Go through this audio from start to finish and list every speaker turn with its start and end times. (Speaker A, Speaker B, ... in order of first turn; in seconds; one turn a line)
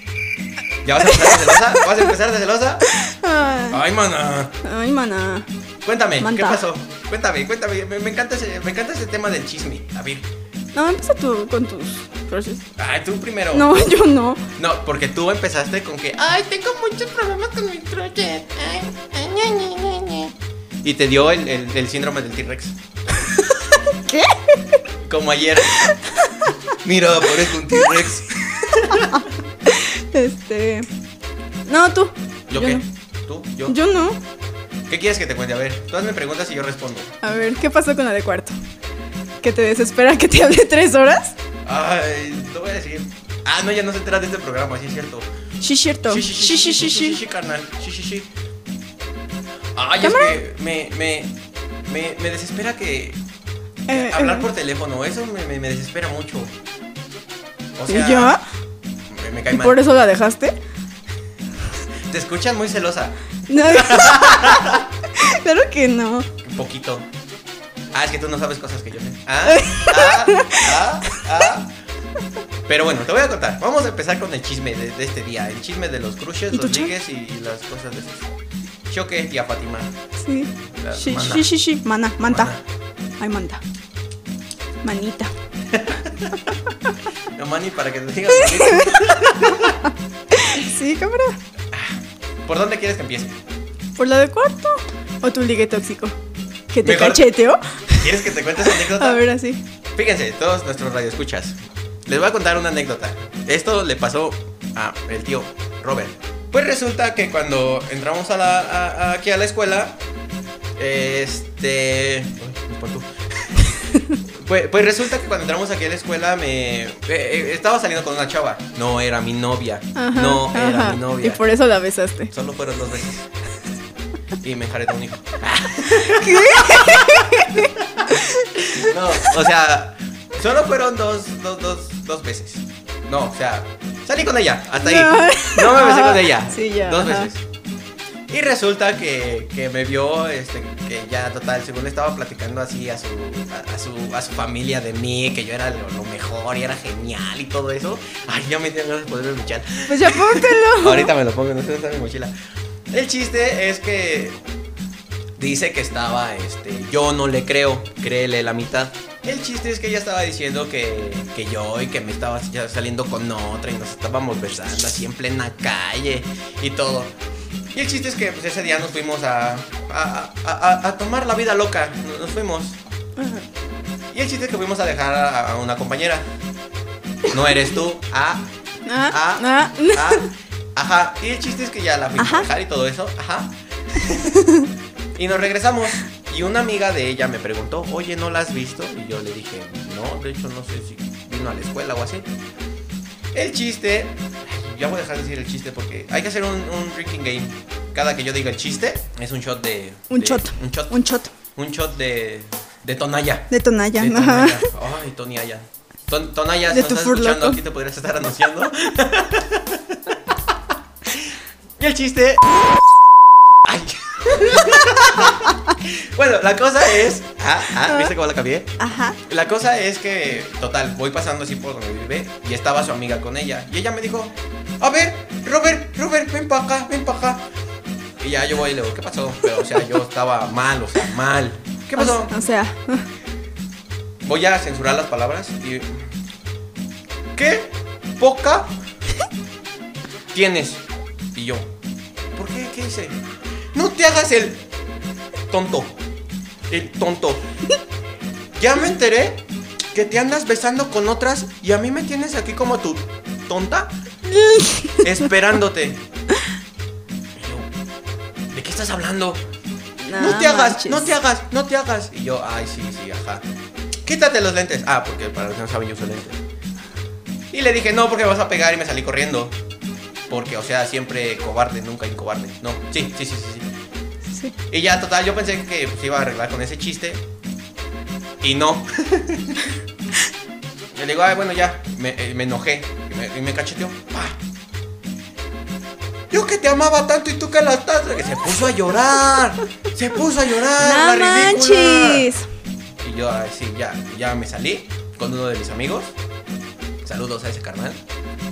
Speaker A: 0.8-2.9
Speaker B: 1.1-1.9
Speaker B: 2.9-3.8
Speaker A: 3.7-4.5
Speaker B: 4.6-5.5
Speaker A: 5.8-10.3
Speaker B: 6.2-6.6
Speaker B: 10.7-12.6
Speaker A: 12.8-13.7
Speaker B: 13.5-14.4
Speaker A: 14.6-22.8
Speaker B: 23.5-24.8
Speaker A: 25.1-25.9
Speaker B: 25.8-26.4
Speaker A: 26.8-29.3
Speaker B: 28.6-30.9
Speaker B: 31.7-32.9
Speaker A: 32.5-33.8
Speaker B: 33.7-34.2
Speaker A: 34.9-37.1
Speaker B: 37.2-38.5
Speaker B: 39.4-41.4
Speaker A: 41.6-45.3
Speaker B: 45.6-47.2
Speaker A: 46.1-48.3
Speaker A: 49.8-51.4
Speaker B: 50.0-50.4
Speaker A: 51.9-53.2
Speaker B: 53.9-54.5
Speaker A: 53.9-56.5
Speaker A: 57.8-58.4
Speaker B: 57.9-58.4
Speaker A: 59.1-59.8
Speaker B: 59.5-60.5
Speaker A: 62.1-64.9
Speaker B: 63.5-66.3
Speaker A: 66.4-67.1
Speaker A: 67.9-71.7
Speaker B: 69.5-71.2
Speaker A: 72.7-78.3
Speaker B: 76.5-76.9
Speaker A: 78.9-79.9
Speaker B: 80.2-82.5
Speaker A: 80.8-81.5
Speaker A: 82.2-82.6
Speaker B: 83.2-83.6
Speaker B: 84.8-85.3
Speaker A: 85.7-86.5
Speaker A: 87.3-89.8
Speaker B: 88.4-89.0
Speaker B: 90.3-91.4
Speaker A: 91.7-93.4
Speaker B: 94.0-96.2
Speaker B: 96.7-99.6
Speaker A: 96.8-97.3
Speaker A: 98.0-99.3
Speaker A: 100.0-110.0
Speaker A: 110.8-113.6
Speaker A: 114.3-121.4
Speaker B: 120.0-122.3
Speaker A: 122.3-123.3
Speaker A: 124.4-137.4
Speaker B: 125.9-128.9
Speaker B: 134.8-137.3
Speaker A: 138.3-152.3
Speaker B: 149.9-151.1
Speaker A: 152.9-154.4
Speaker A: 155.4-167.2
Speaker A: 167.7-172.8
Speaker B: 173.2-173.5
Speaker A: 174.1-176.3
Speaker A: 177.3-178.5
Speaker B: 178.9-180.2
Speaker A: 179.1-184.3
Speaker B: 182.2-182.4
Speaker B: 184.3-184.7
Speaker A: 185.2-192.3
Speaker A: 193.3-200.9
Speaker B: 200.1-201.3
Speaker A: 201.6-210.6
Speaker B: 203.5-204.7
Speaker B: 206.7-207.6
Speaker A: 211.1-212.6
Speaker A: 213.7-227.5
Speaker B: 218.8-219.2
Speaker A: 228.2-232.3
Speaker B: 232.0-233.1
Speaker A: 234.2-236.0
Speaker A: 237.3-238.8
Speaker A: 240.3-240.8
Speaker A: 241.3-241.7
Speaker A: 242.3-243.2
Speaker A: 243.7-244.7
Speaker A: 245.5-246.0
Speaker A: 246.7-247.4
Speaker A: 248.6-253.9
Speaker B: 254.3-255.0
Speaker A: 255.0-256.0
Speaker A: 257.4-257.7
Speaker A: 258.5-259.4
Speaker B: 260.0-261.1
Speaker A: 260.2-263.4
Speaker A: 264.0-266.4
Speaker A: 267.5-269.6
Speaker A: 270.3-273.7
Speaker A: 274.7-277.2
Speaker A: 278.4-279.7
Speaker A: 280.9-284.4
Speaker A: 286.3-292.3
Speaker B: 290.8-292.5
Speaker A: 293.0-296.1
Speaker A: 297.0-298.0